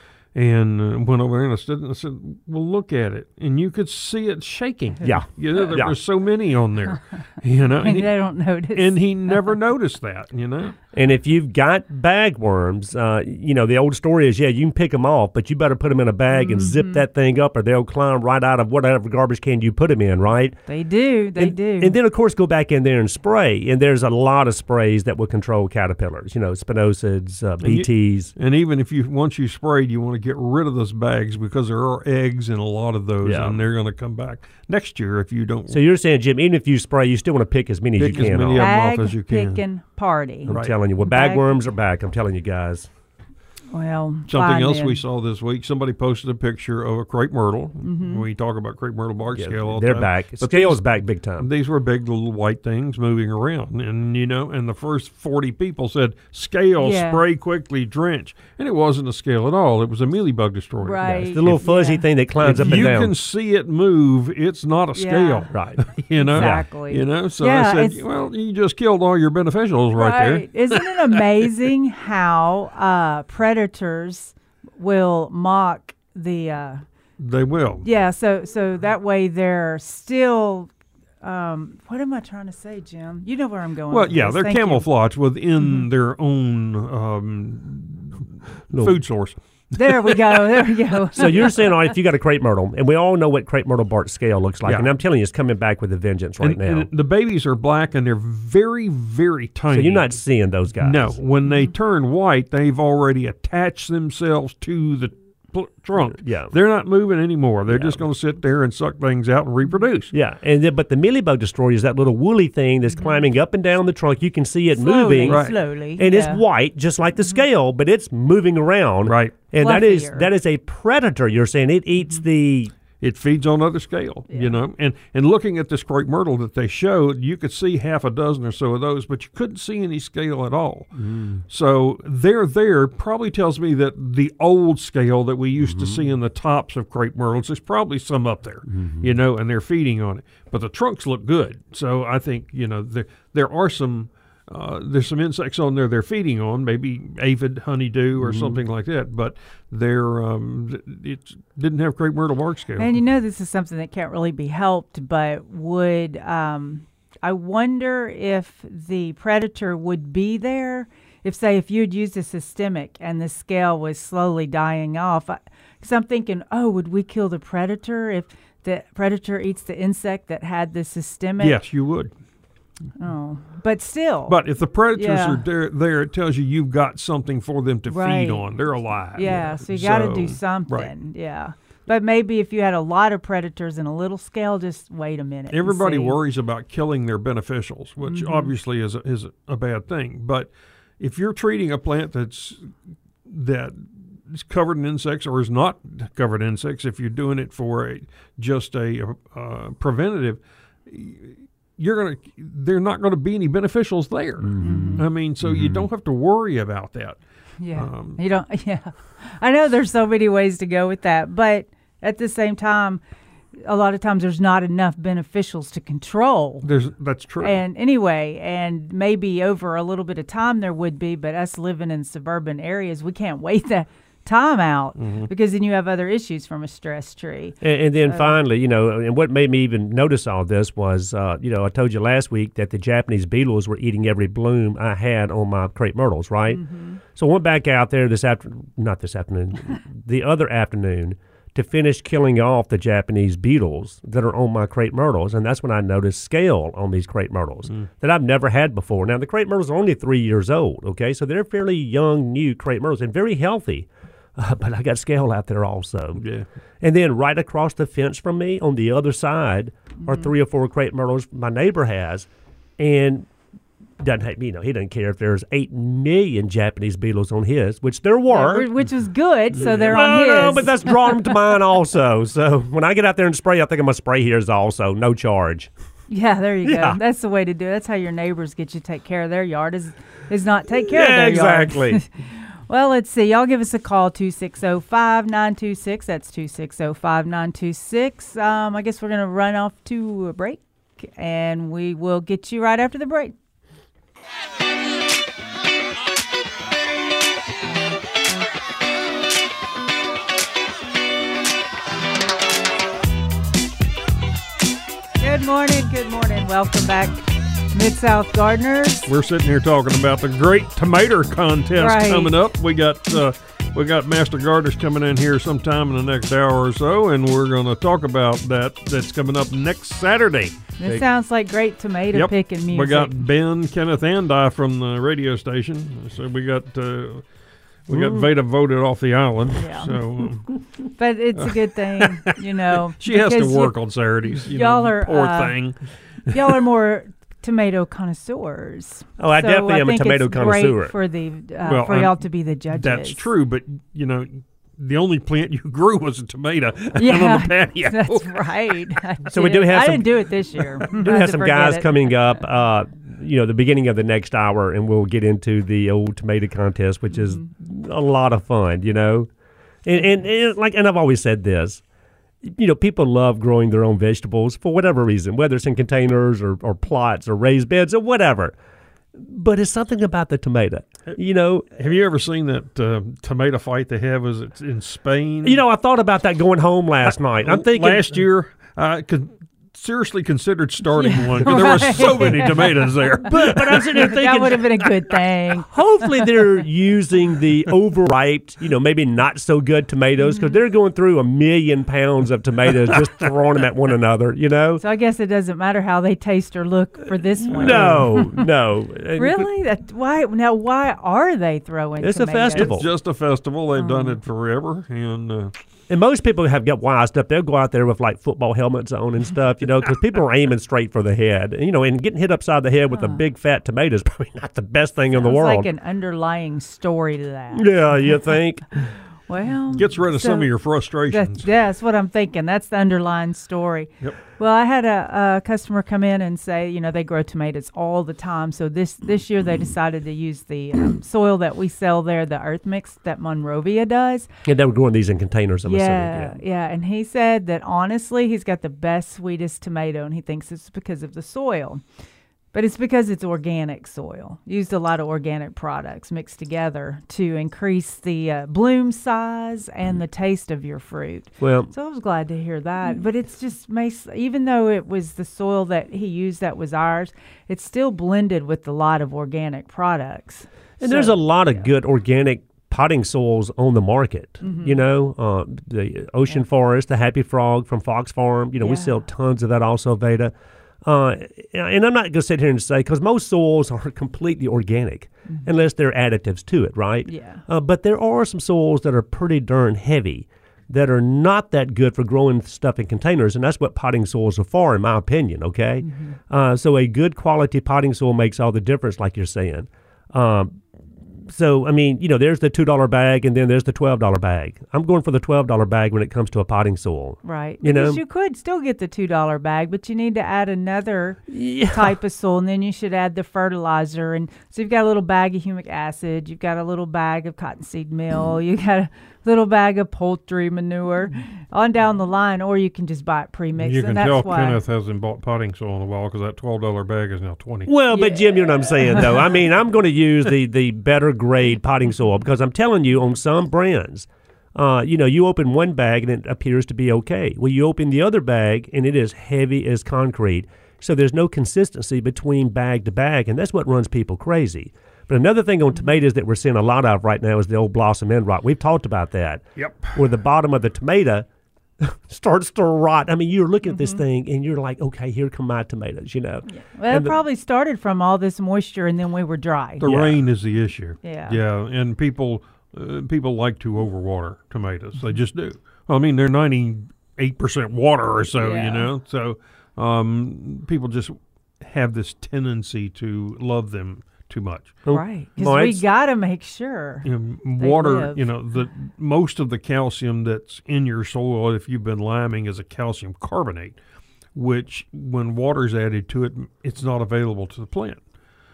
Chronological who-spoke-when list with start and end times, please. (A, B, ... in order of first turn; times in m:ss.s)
0:00.3-0:10.7 A
0:05.0-0:06.0 B
0:07.8-0:09.4 C
0:10.9-0:20.6 B
0:16.3-0:17.0 C
0:20.7-0:22.0 C
0:21.4-0:28.3 B
0:27.6-0:35.8 A
0:33.2-0:33.6 B
0:35.7-0:38.7 B
0:38.0-0:39.6 A
0:38.6-0:41.4 C
0:40.5-0:42.9 B
0:40.5-0:40.7 A
0:43.7-0:45.0 C
0:44.3-1:01.5 A
0:47.8-0:48.2 C
0:49.3-0:51.5 B
0:56.8-0:57.2 C
1:00.8-1:02.0 C
1:01.2-1:03.1 B
1:02.4-1:11.5 A
1:05.0-1:05.5 C
1:05.5-1:06.6 B
1:06.2-1:08.0 C
1:10.0-1:16.8 C
1:17.2-1:17.8 A
1:17.8-1:24.9 C
1:23.9-1:30.9 A
1:28.7-1:29.0 B
1:29.8-1:31.5 C
1:31.2-1:36.9 B
1:34.6-1:34.9 A
1:36.4-1:40.2 A
1:39.7-1:41.2 B
1:40.8-1:50.1 A
1:46.1-1:46.5 B
1:47.7-1:48.0 B
1:50.1-2:02.7 B
1:52.9-1:53.2 C
1:54.8-1:56.4 C
1:55.2-1:55.6 A
1:59.0-1:59.3 A
1:59.6-2:00.3 C
2:03.0-2:10.9 A
2:04.3-2:04.6 C
2:11.0-2:11.4 B
2:11.5-2:33.0 A
2:15.6-2:16.0 B
2:18.7-2:19.1 B
2:28.2-2:28.6 B
2:32.8-2:51.6 C
2:51.4-2:52.1 A
2:53.0-2:54.4 C
2:54.3-3:00.9 A
2:54.9-2:55.4 C
2:57.9-2:58.4 C
2:59.1-3:06.2 C
3:05.5-3:12.7 A
3:08.0-3:08.5 C
3:13.3-3:27.2 A
3:24.4-3:25.9 B
3:24.6-3:25.0 C
3:27.6-3:33.0 C
3:27.7-3:28.2 A
3:33.6-3:36.7 C
3:36.6-3:37.6 A
3:37.4-3:48.3 C
3:45.0-3:45.3 A
3:47.6-4:16.2 B
3:56.5-3:57.0 C
4:16.2-4:16.4 A
4:16.8-4:23.3 B
4:20.0-4:20.3 C
4:24.0-4:28.7 B
4:28.3-4:30.9 C
4:29.6-4:30.0 A
4:29.6-4:35.7 B
4:36.1-4:42.1 C
4:36.6-4:37.0 B
4:40.8-4:42.0 B
4:42.7-4:53.3 C
5:05.2-5:09.1 C
5:09.1-5:21.0 A
5:11.8-5:12.3 C
5:20.8-5:23.1 C
5:22.1-5:27.2 A
5:27.9-5:30.6 A
5:27.9-5:28.3 B
5:29.6-5:29.9 C
5:31.0-5:33.8 C
5:31.4-5:32.4 A
5:33.0-5:36.5 A
5:34.4-5:35.6 C
5:36.3-5:43.2 C
5:39.2-5:40.9 B
5:41.6-5:49.0 A
5:47.0-5:52.1 C
5:49.3-5:50.2 B
5:50.8-5:59.3 B
5:59.8-6:01.8 B
6:02.4-6:08.5 B
6:09.1-6:11.7 B
6:11.8-6:15.6 A
6:15.4-6:18.2 B
6:17.0-6:23.9 A
6:21.0-6:22.7 C
6:21.4-6:22.6 B
6:23.2-6:24.7 B
6:23.9-6:26.1 C
6:25.7-6:34.8 B
6:34.8-6:38.4 C
6:37.5-6:39.5 B
6:37.5-6:37.9 A
6:39.2-6:42.7 C
6:42.0-6:42.9 B
6:42.5-6:45.5 A
6:43.8-6:44.2 C
6:45.9-6:55.7 B
6:55.1-6:57.7 C
6:57.5-6:58.9 B
6:59.3-7:00.5 C
6:59.7-7:01.5 A
7:01.1-7:14.3 C
7:14.4-7:16.4 B
7:15.6-7:21.8 C
7:22.5-7:41.7 C
7:31.4-7:31.7 B
7:40.8-8:18.0 B
7:44.4-7:44.8 C
7:48.6-7:48.9 C
7:57.1-7:57.4 C
8:05.8-8:06.1 C
8:17.2-8:34.6 C
8:21.3-8:21.9 B
8:33.6-8:37.7 A
8:37.7-9:01.3 B
8:37.9-8:39.0 C
8:59.6-9:00.0 A
9:01.8-9:07.2 B
9:03.7-9:04.0 C
9:06.5-9:09.8 C
9:09.8-9:24.8 A
9:09.8-9:10.2 B
9:11.0-9:11.4 C
9:18.4-9:18.9 C
9:24.8-9:25.8 B
9:24.9-9:27.1 C
9:27.0-9:33.8 A
9:27.6-9:28.2 C
9:34.3-9:38.0 A